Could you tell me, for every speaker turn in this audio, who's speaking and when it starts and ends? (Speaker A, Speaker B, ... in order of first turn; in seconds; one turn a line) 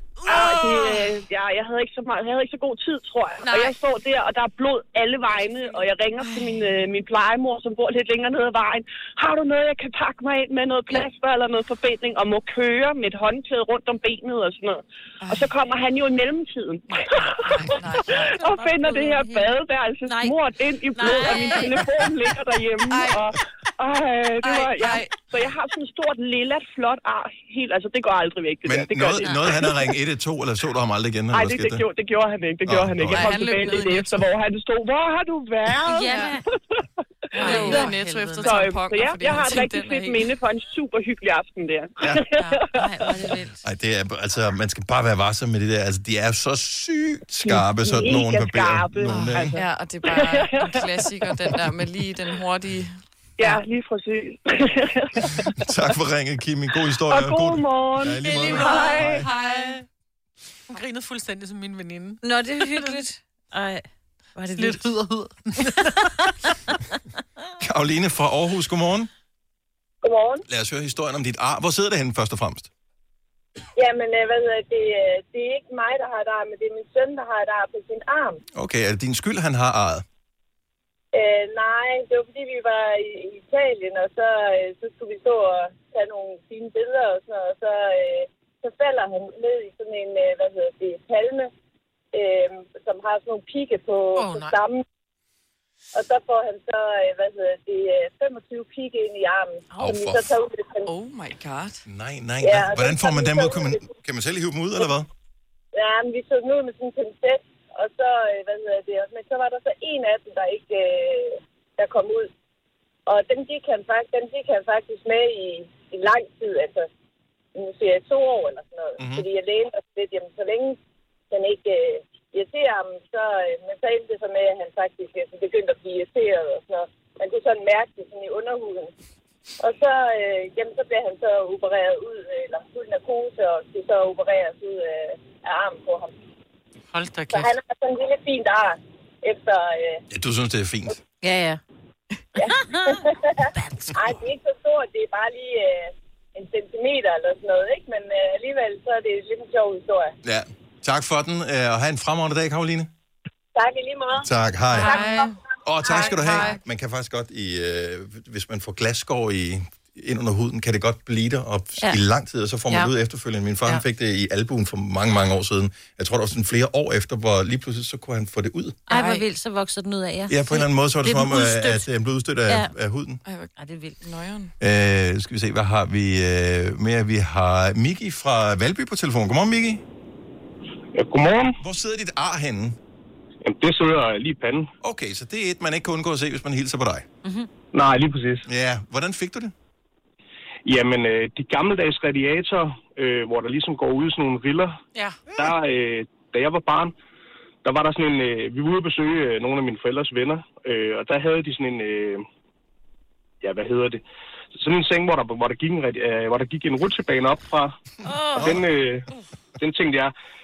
Speaker A: 0.3-29.9
Speaker B: 0.3-1.1
Speaker C: 6.2-6.9
Speaker C: 15.2-15.6
Speaker C: 16.9-18.2
Speaker D: 18.2-19.6
Speaker D: 20.1-20.4
Speaker D: 21.0-21.8
Speaker C: 22.9-23.3
Speaker C: 24.4-25.2
Speaker E: 28.6-31.9
Speaker A: 31.3-36.2
Speaker E: 32.6-33.3
Speaker C: 33.1-34.3
Speaker D: 35.9-36.4
Speaker C: 35.9-36.4
Speaker C: 37.3-40.1
Speaker B: 37.4-38.7
Speaker A: 37.4-37.8
Speaker D: 37.5-37.8
Speaker A: 38.4-42.6
Speaker B: 39.3-40.2
Speaker B: 42.4-42.6
Speaker D: 42.7-43.6
Speaker E: 43.6-49.6
Speaker A: 47.9-49.6
Speaker C: 49.1-53.0
Speaker A: 50.4-50.8
Speaker A: 53.4-55.5
Speaker E: 55.6-59.3
Speaker A: 57.1-59.0
Speaker B: 58.3-59.8
Speaker C: 59.0-59.6
Speaker B: 60.7-62.2
Speaker D: 62.2-64.9
Speaker B: 62.7-63.0
Speaker B: 64.6-66.4
Speaker E: 67.6-69.1
Speaker F: 70.0-70.5
Speaker E: 70.5-72.7
Speaker F: 73.8-78.4
Speaker E: 78.5-80.0
Speaker F: 81.1-91.5
Speaker F: 92.1-94.8
Speaker B: 94.2-94.5
Speaker F: 95.9-100.9
Speaker E: 99.8-100.4
Speaker C: 100.9-101.8
Speaker E: 101.9-105.1
Speaker F: 102.4-103.9
Speaker F: 105.7-112.3
Speaker F: 113.1-116.9
Speaker F: 117.5-120.8
Speaker E: 119.0-119.3
Speaker F: 121.3-128.9
Speaker F: 129.6-136.1
Speaker B: 136.9-137.5
Speaker F: 137.3-140.0
Speaker E: 140.1-141.0
Speaker D: 141.2-141.6
Speaker F: 142.4-150.2
Speaker E: 150.2-152.9
Speaker F: 153.6-155.4
Speaker E: 154.2-155.1
Speaker B: 154.7-156.6
Speaker E: 155.6-168.9
Speaker D: 168.9-171.9
Speaker B: 168.9-169.3
Speaker E: 170.3-173.2
Speaker C: 173.2-174.5
Speaker D: 173.6-173.9
Speaker E: 174.6-179.8
Speaker G: 180.9-181.6
Speaker E: 181.6-182.8
Speaker G: 183.4-184.7
Speaker E: 184.8-187.1
Speaker D: 187.2-187.5
Speaker G: 187.7-188.5
Speaker E: 188.5-189.5
Speaker G: 190.7-194.8
Speaker B: 194.9-195.2
Speaker G: 195.4-196.9
Speaker G: 197.6-202.2
Speaker G: 203.4-204.0
Speaker G: 204.6-207.8
Speaker D: 208.0-208.6
Speaker E: 208.4-208.7
Speaker G: 208.4-209.1
Speaker G: 209.6-210.1